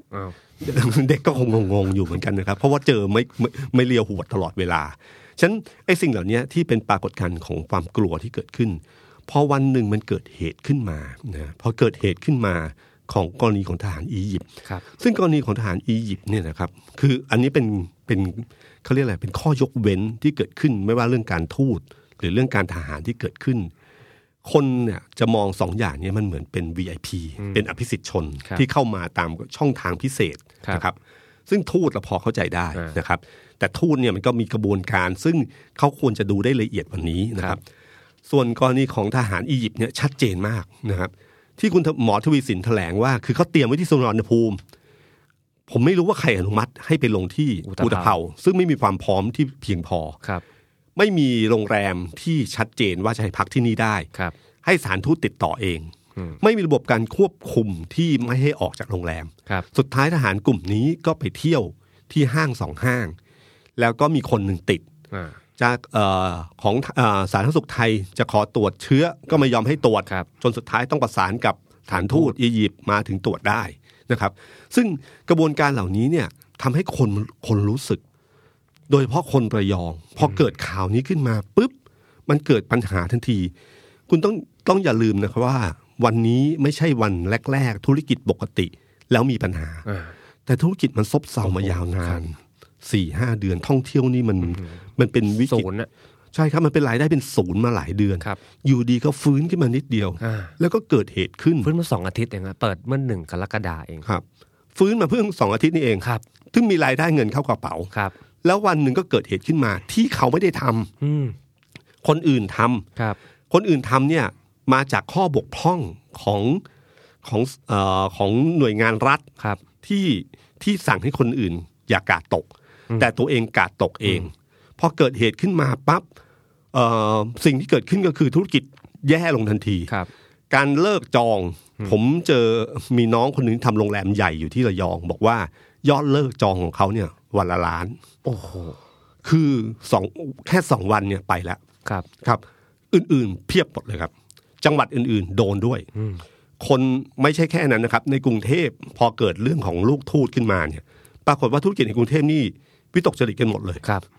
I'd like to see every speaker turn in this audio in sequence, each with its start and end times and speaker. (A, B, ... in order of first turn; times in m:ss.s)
0:00.6-0:23.7 A
0:24.4-0:37.6 A
0:38.3-0:44.6 A
0:45.7-0:50.2 A
0:47.6-0:48.2 B
0:51.0-0:54.1 A
0:54.6-1:03.2 A
1:03.8-1:04.8 A
1:05.1-1:05.4 B
1:05.6-1:18.0 A
1:11.9-1:12.3 B
1:18.9-1:21.7 A
1:22.3-1:23.5 A
1:24.1-1:29.8 A
1:29.8-1:30.1 B
1:30.4-1:35.7 A
1:31.4-1:32.2 B
1:34.4-1:34.8 B
1:35.4-1:35.9 B
1:36.3-1:41.7 A
1:40.2-1:40.5 B
1:41.6-1:44.0 B
1:44.7-1:47.9 A
1:48.4-1:50.9 A
1:51.0-1:51.3 B
1:52.0-1:52.8 A
1:53.5-1:56.6 A
1:57.2-1:59.3 A
1:59.8-2:06.1 A
2:06.7-2:09.9 A
2:10.5-2:18.0 A
2:18.2-2:18.8 B
2:19.2-2:21.6 A
2:22.2-2:25.9 A
2:25.9-2:26.2 B
2:26.6-2:33.8 A